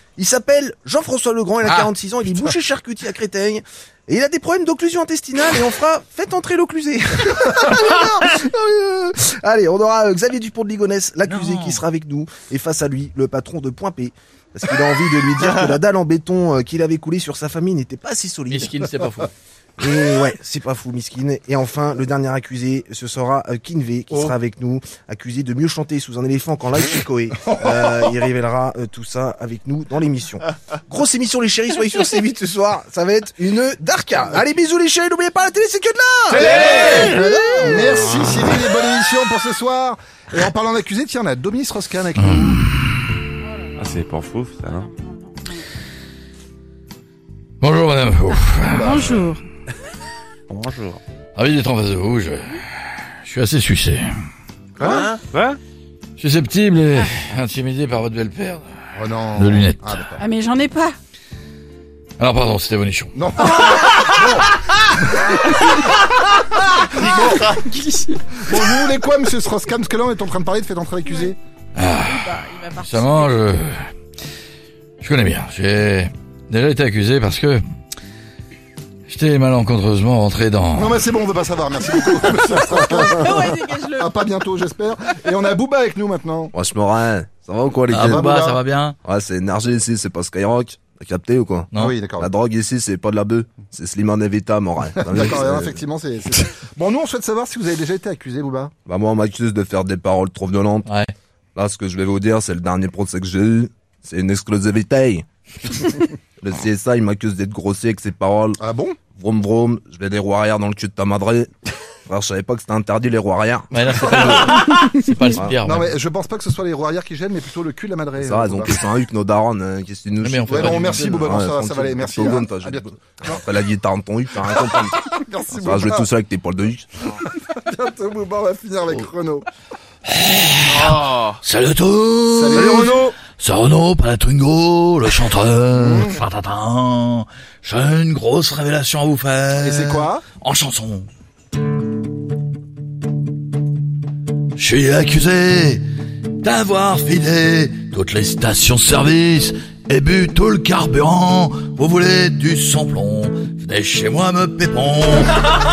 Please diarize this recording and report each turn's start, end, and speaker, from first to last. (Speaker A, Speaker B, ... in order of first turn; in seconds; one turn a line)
Speaker A: 0.2-18.9
Speaker B: 11.3-11.8
Speaker B: 18.5-19.3
Speaker A: 19.8-38.2
Speaker C: 36.3-42.6
Speaker B: 42.2-42.9
Speaker D: 43.8-44.9
Speaker E: 44.9-45.5
Speaker B: 47.6-49.1
Speaker E: 48.6-49.4
Speaker D: 50.5-51.0
Speaker B: 51.4-54.1
Speaker C: 54.8-55.1
Speaker D: 54.8-55.6
Speaker B: 56.2-58.7
Speaker C: 58.9-60.2
Speaker B: 59.3-60.0
Speaker E: 60.2-61.0
Speaker B: 62.2-63.1
Speaker C: 63.1-71.4
Speaker B: 71.8-73.8
Speaker E: 71.9-73.2
Speaker B: 75.0-77.6
Speaker B: 79.1-81.0
Speaker C: 80.7-86.5
Speaker E: 82.7-84.1
Speaker A: 86.5-88.3
Speaker B: 87.9-89.0
Speaker C: 88.0-88.6
Speaker A: 89.0-95.8
Speaker C: 91.8-92.3
Speaker C: 95.0-98.7
Speaker A: 98.8-100.9
Speaker B: 100.8-101.1
Speaker A: 101.5-108.6
Speaker C: 108.6-109.0
Speaker A: 109.1-111.5
Speaker A: 112.1-114.6
Speaker B: 113.7-115.9
Speaker C: 114.2-114.9
Speaker C: 115.6-118.8
Speaker A: 118.2-126.9
Speaker B: 120.2-121.1
Speaker C: 120.5-123.4
Speaker C: 124.5-126.1
Speaker C: 127.1-129.5
Speaker B: 130.1-141.1
Speaker C: 130.7-131.1
Speaker C: 132.3-133.1
Speaker C: 135.8-136.2
Speaker C: 139.5-140.2
Speaker B: 144.6-145.8
Speaker B: 146.3-155.3